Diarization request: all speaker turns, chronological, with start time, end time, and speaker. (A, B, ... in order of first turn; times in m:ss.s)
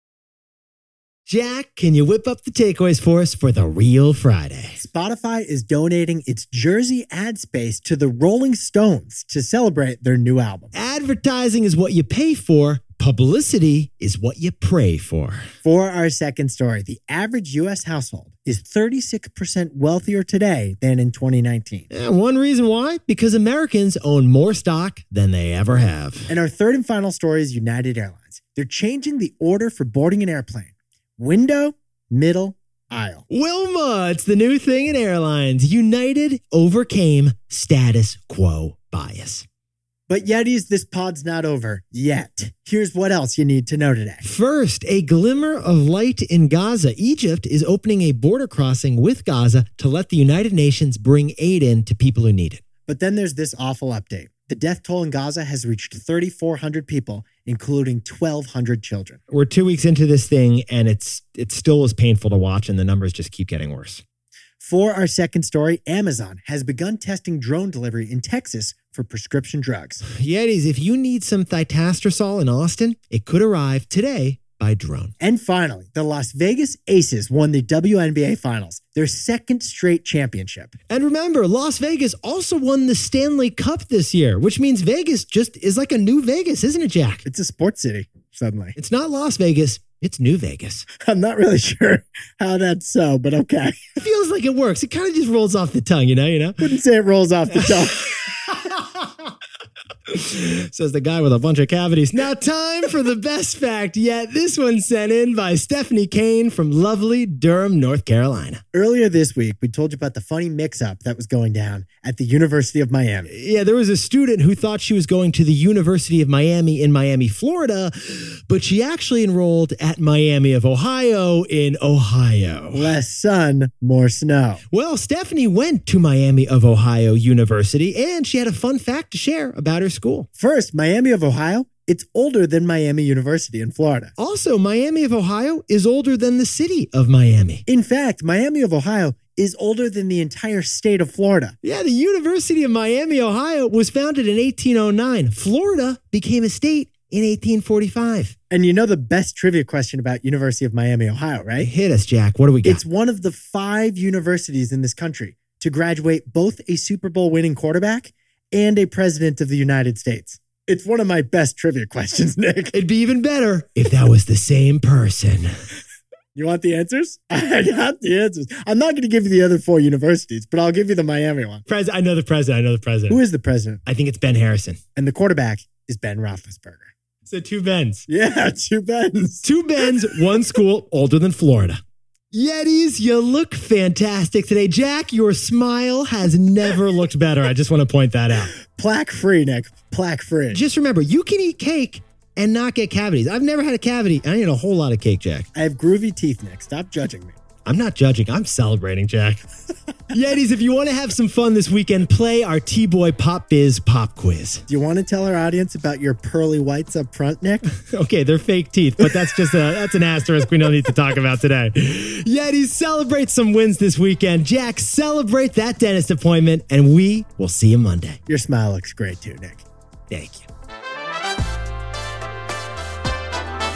0:01.3-0:04.8 A
0:04.8-0:10.7 B
0:10.7-0:15.5 A
0:15.6-0:21.9 B
0:21.9-0:26.3 A
0:26.3-0:33.2 B
0:33.3-0:39.4 A
0:40.1-0:44.2 B
0:44.2-0:52.6 A
0:52.9-0:59.2 B
0:59.3-1:04.0 A
1:04.6-1:10.0 B
1:10.0-1:15.1 A
1:15.2-1:20.7 B
1:20.9-1:27.2 A
1:27.2-1:28.8 B
1:28.8-1:30.9 A
1:31.0-1:34.0 B
1:34.0-1:36.7 A
1:36.6-1:38.1 B
1:37.5-1:39.3 A
1:40.1-1:48.6 A
1:48.7-1:53.3 B
1:53.3-2:02.9 A
2:02.7-2:04.6 B
2:04.7-2:10.3 A
2:10.4-2:14.1 B
2:14.2-2:17.6 A
2:17.7-2:21.6 B
2:21.6-2:28.4 A
2:28.5-2:31.7 B
2:31.6-2:32.8 A
2:32.6-2:42.8 B
2:42.7-2:45.5 A
2:46.4-2:51.6 B
2:51.7-2:53.2 A
2:53.1-2:53.8 B
2:53.9-2:54.8 A
2:55.0-2:56.9 B
2:57.3-2:58.0 A
2:58.1-2:59.5 B
2:59.4-3:01.8 A
3:02.3-3:08.5 A
3:08.8-3:10.6 B
3:10.5-3:15.5 A
3:15.6-3:17.4 B
3:17.6-3:19.4 A
3:20.1-3:24.6 A
3:24.7-3:27.7 B
3:27.7-3:38.2 A
3:38.3-3:39.6 B
3:40.1-3:40.5 A